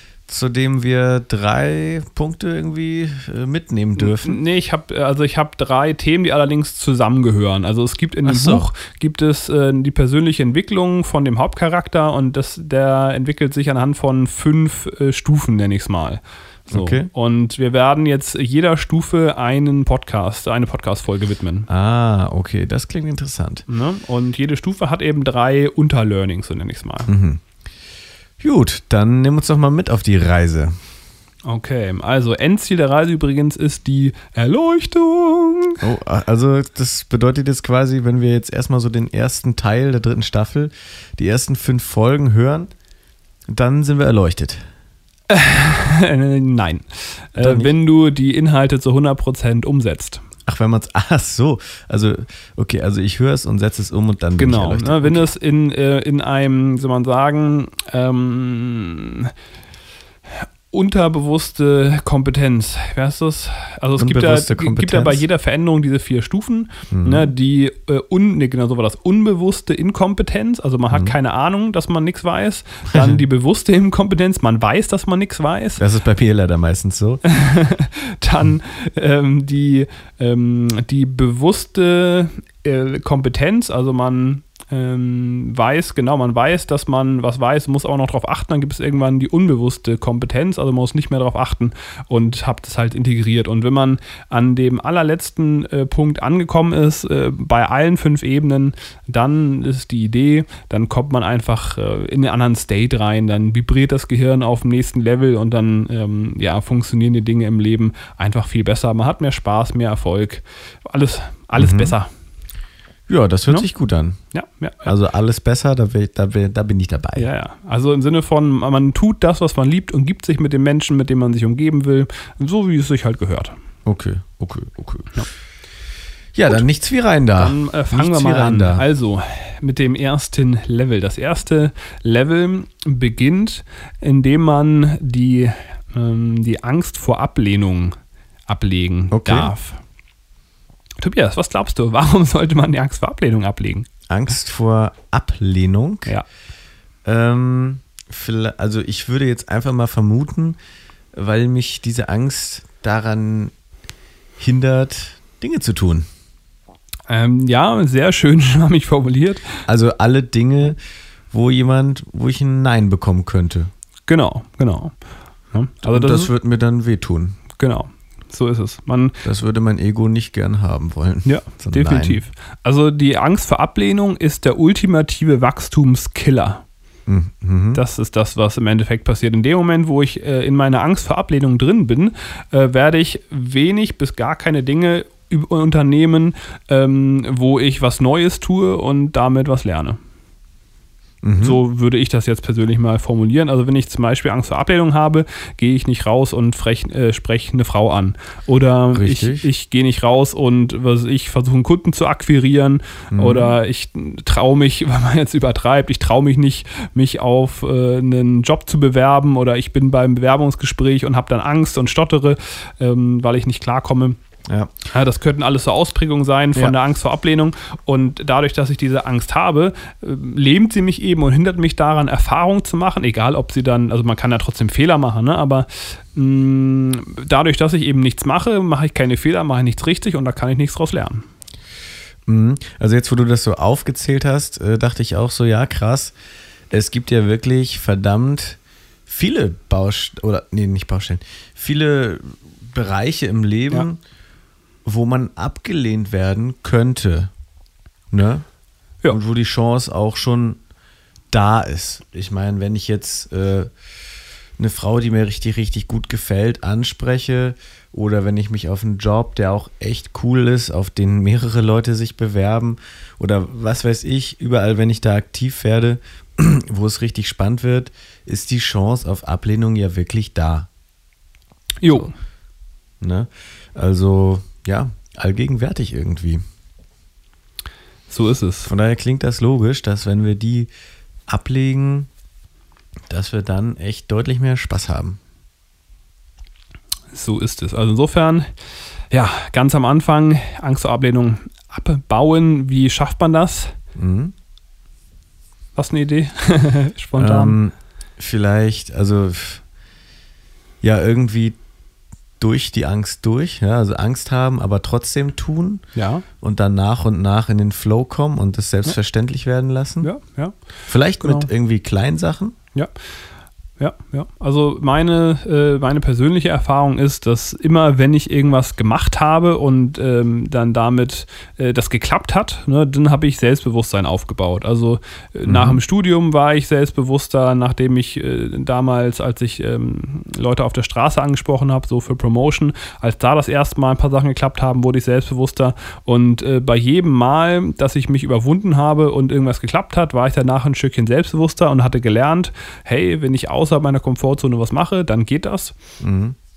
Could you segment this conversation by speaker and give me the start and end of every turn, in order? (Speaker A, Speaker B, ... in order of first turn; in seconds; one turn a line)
Speaker A: 0.3-4.4
Speaker B: 4.0-21.7
Speaker A: 8.2-8.7
Speaker A: 16.7-17.1
Speaker A: 21.7-23.6
Speaker B: 23.7-27.1
Speaker A: 27.1-27.4
Speaker A: 28.4-30.7
Speaker B: 31.5-35.8
Speaker A: 35.8-42.7
Speaker A: 43.5-44.6
Speaker B: 45.3-50.2
Speaker A: 47.4-47.7
Speaker A: 50.5-55.3
Speaker B: 54.4-59.3
Speaker B: 60.3-75.8
Speaker A: 64.0-65.2
Speaker A: 66.9-67.2
Speaker A: 72.9-73.2
Speaker A: 75.8-77.2
Speaker B: 77.2-112.1
Speaker A: 111.5-111.9
Speaker A: 113.1-114.2
Speaker B: 114.3-114.9
Speaker A: 114.8-117.3
Speaker B: 117.2-123.5
Speaker A: 123.8-125.2
Speaker A: 126.3-128.8
Speaker B: 127.4-137.9
Speaker B: 138.5-139.8
Speaker A: 139.1-139.5
Speaker B: 141.0-143.9
Speaker A: 144.1-146.1
Speaker A: 147.0-150.6
Speaker A: 151.1-153.5
Speaker A: 154.4-156.1
Speaker B: 157.1-159.6
Speaker A: 159.7-160.8
Speaker A: 161.3-163.7
Speaker B: 164.1-164.9
Speaker B: 165.5-166.3
Speaker A: 165.8-167.4
Speaker B: 167.6-169.2
Speaker A: 169.2-172.2
Speaker B: 171.2-176.6
Speaker A: 177.1-177.8
Speaker B: 177.7-190.0
Speaker A: 191.2-191.6
Speaker B: 191.4-214.2
Speaker A: 198.9-199.5
Speaker A: 203.1-203.5
Speaker B: 214.9-231.2
Speaker A: 232.2-236.1
Speaker A: 236.7-244.0
Speaker A: 244.8-247.3
Speaker A: 248.1-248.4
Speaker A: 249.1-250.6
Speaker A: 251.3-253.7
Speaker A: 254.6-270.7
Speaker B: 271.8-272.1
Speaker A: 273.0-276.4
Speaker B: 278.1-278.7
Speaker A: 278.6-280.7
Speaker A: 281.3-282.1
Speaker A: 283.1-285.2
Speaker B: 287.1-288.5
Speaker B: 289.1-293.7
Speaker A: 293.9-294.3
Speaker B: 295.8-297.6
Speaker A: 297.2-299.6
Speaker A: 300.8-301.6
Speaker A: 302.4-305.8
Speaker B: 305.9-306.2
Speaker A: 306.4-310.1
Speaker B: 310.0-310.6
Speaker A: 310.9-312.5
Speaker B: 311.2-311.5
Speaker B: 313.8-345.7
Speaker A: 325.5-325.8
Speaker A: 346.0-346.4